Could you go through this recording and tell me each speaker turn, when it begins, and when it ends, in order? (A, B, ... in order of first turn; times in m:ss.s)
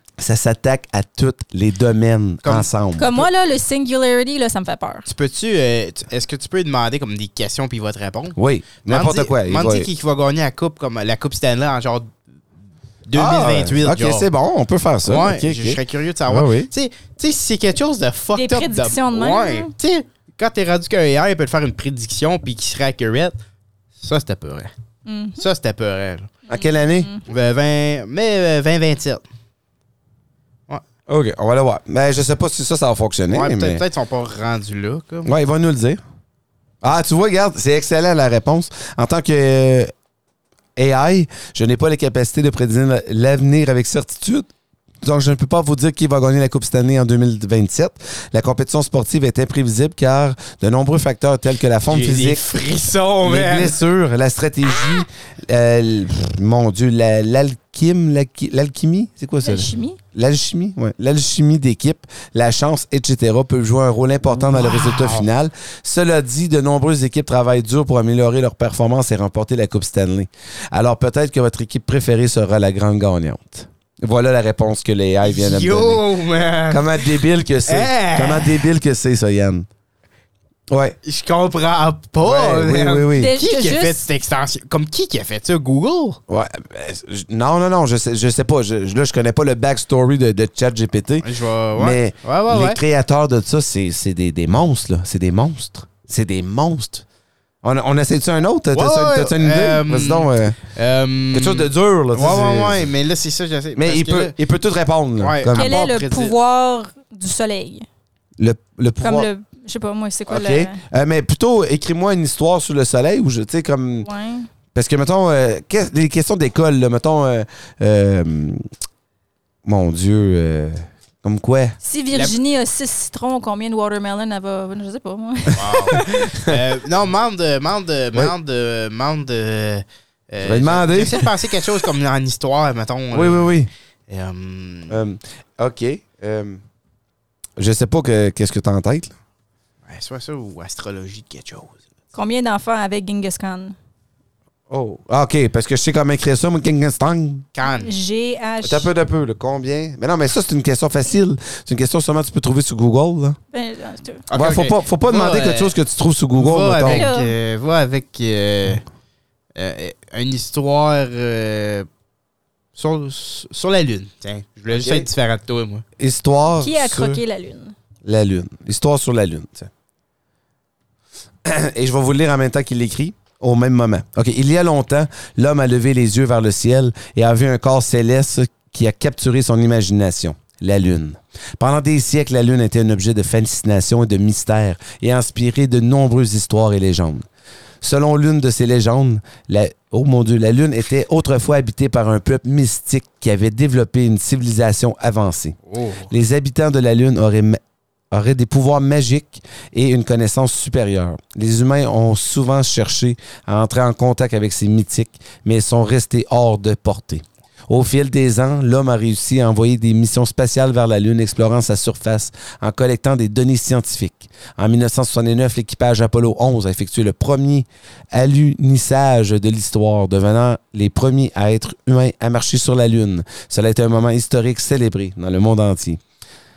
0:00.2-0:03.3 A
0:03.0-0:05.1 B
0:05.0-0:12.1 C
0:08.4-0:09.9 A
0:13.1-0:14.3 C
0:13.1-0:16.7 A
0:15.0-0:23.3 C
0:18.3-0:19.7 B
0:24.0-0:24.7 C
0:25.0-0:25.4 B
0:25.4-0:26.3 C
0:26.5-0:27.1 A
0:26.5-0:27.2 B
0:27.3-0:29.2 C
0:31.1-0:33.8 A
0:33.3-0:35.3 C
0:35.2-0:36.0 A
0:36.8-0:39.9 A
0:40.8-0:44.5 A
0:45.0-0:52.4 A
0:51.9-0:53.8 C
0:53.2-1:16.0 A
0:59.4-1:00.0 B
1:04.5-1:05.2 C
1:15.2-1:17.1 C
1:16.7-1:19.6 A
1:17.7-1:18.6 C
1:20.7-1:21.0 A
1:21.0-1:26.2 C
1:22.2-1:23.3 A
1:23.2-1:24.0 B
1:26.3-1:37.0 A
1:31.2-1:32.8 C
1:37.6-1:40.6 A
1:38.7-1:44.4 C
1:41.3-1:42.9 A
1:43.8-1:45.9 A
1:45.2-1:46.3 C
1:45.5-1:47.9 B
1:48.4-1:49.3 A
1:49.0-1:50.8 B
1:50.3-1:54.1 A
1:54.0-1:54.5 B
1:54.7-1:58.6 A
1:59.6-2:01.8 A
2:01.8-2:06.3 B
2:05.6-2:15.0 C
2:05.9-2:06.6 A
2:10.4-2:11.4 A
2:13.1-2:13.7 A
2:14.9-2:16.6 A
2:17.6-2:19.1 A
2:19.8-2:21.8 C
2:22.1-2:23.8 B
2:24.7-2:27.4 A
2:27.5-2:27.9 C
2:27.6-2:28.9 B
2:28.6-2:33.4 A
2:33.5-2:34.2 B
2:34.3-2:35.8 C
2:34.3-2:37.1 A
2:36.3-2:38.8 C
2:36.9-2:37.3 B
2:39.5-2:41.9 C
2:42.8-2:45.8 C
2:44.7-2:45.0 A
2:46.0-2:47.2 A
2:46.6-2:47.7 B
2:48.0-2:49.7 A
2:51.4-3:07.2 A
3:07.8-3:15.6 A
3:15.7-3:16.1 C
3:16.1-3:17.6 A
3:18.1-3:46.0 A